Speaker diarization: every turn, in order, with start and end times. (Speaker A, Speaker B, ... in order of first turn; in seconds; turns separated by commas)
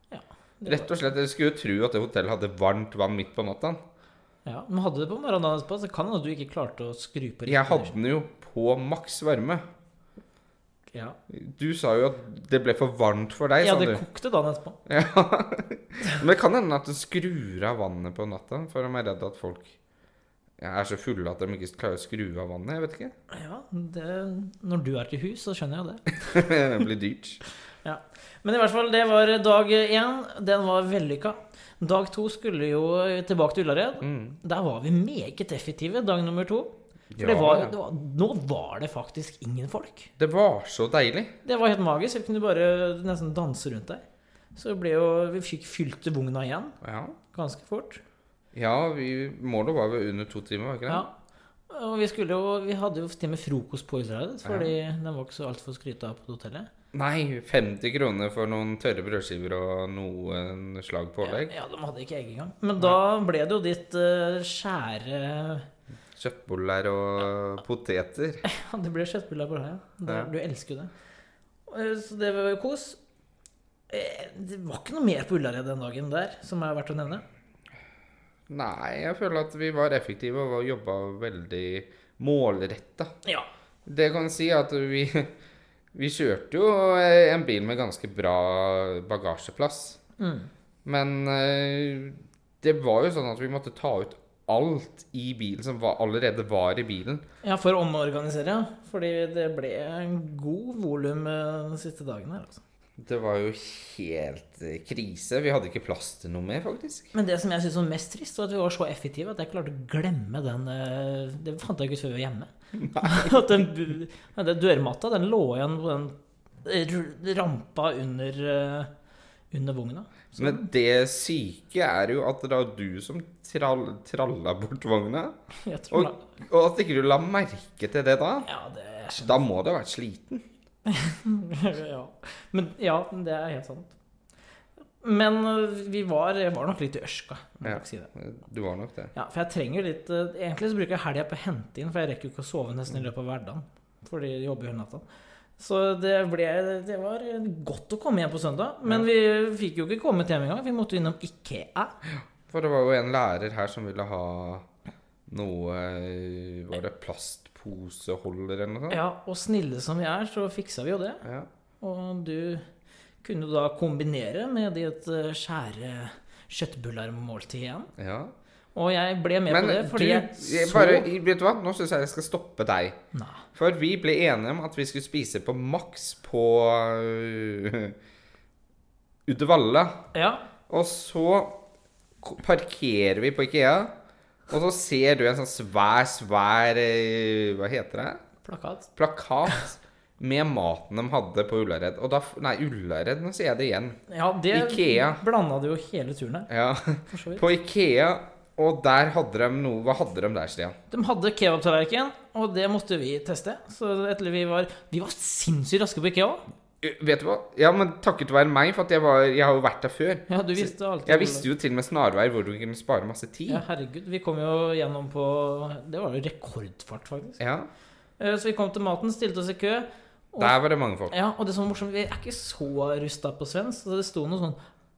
Speaker A: 0.1-0.9, Speaker B: 0.7-3.8, Speaker A: 4.4-7.9, Speaker B: 7.5-9.6, Speaker B: 11.3-14.0, Speaker A: 13.6-14.8, Speaker B: 14.9-19.7, Speaker B: 20.6-23.1, Speaker A: 23.3-26.1, Speaker B: 26.2-27.4, Speaker A: 27.8-40.1, Speaker B: 34.0-34.4, Speaker B: 37.1-37.8, Speaker B: 40.2-41.3, Speaker A: 41.4-44.0, Speaker A: 44.5-46.8, Speaker B: 46.8-47.2, Speaker A: 47.3-48.0, Speaker B: 48.5-51.0, Speaker A: 50.9-51.1, Speaker A: 51.7-56.7, Speaker B: 54.4-54.7, Speaker B: 56.9-61.5, Speaker A: 61.2-65.7, Speaker B: 66.1-68.4, Speaker A: 68.4-70.9, Speaker A: 71.7-73.0, Speaker A: 73.9-77.2, Speaker B: 78.5-83.1, Speaker B: 83.8-85.3, Speaker B: 85.9-90.0, Speaker A: 90.2-90.5, Speaker B: 90.8-97.2, Speaker A: 97.4-102.6, Speaker B: 103.0-107.1, Speaker A: 107.1-118.9, Speaker B: 112.8-113.5, Speaker A: 119.5-120.7, Speaker B: 120.4-125.3, Speaker A: 125.6-126.2, Speaker B: 125.9-128.5, Speaker A: 128.4-129.4, Speaker B: 129.2-130.4, Speaker A: 130.8-133.9, Speaker A: 135.0-138.1, Speaker B: 137.6-139.1, Speaker A: 139.1-145.0, Speaker A: 145.6-151.9, Speaker B: 152.1-154.7, Speaker B: 155.3-159.0, Speaker A: 158.9-161.2, Speaker B: 161.2-161.5, Speaker A: 161.8-162.6, Speaker A: 163.2-167.9, Speaker B: 168.0-168.3, Speaker A: 168.7-171.1, Speaker B: 169.5-173.0, Speaker A: 173.1-173.4, Speaker B: 173.5-177.9, Speaker B: 179.3-180.0, Speaker A: 180.1-180.4, Speaker B: 180.7-181.6, Speaker B: 182.2-183.9, Speaker B: 184.5-188.2, Speaker A: 188.4-188.9, Speaker B: 188.9-194.0, Speaker A: 194.1-196.5, Speaker B: 194.5-195.2, Speaker B: 196.5-200.8, Speaker A: 197.1-197.4, Speaker A: 200.9-206.4, Speaker B: 206.8-213.6, Speaker A: 210.3-211.5, Speaker A: 213.5-217.4, Speaker B: 217.4-217.7, Speaker A: 218.2-220.5, Speaker B: 220.4-221.1, Speaker A: 221.1-224.6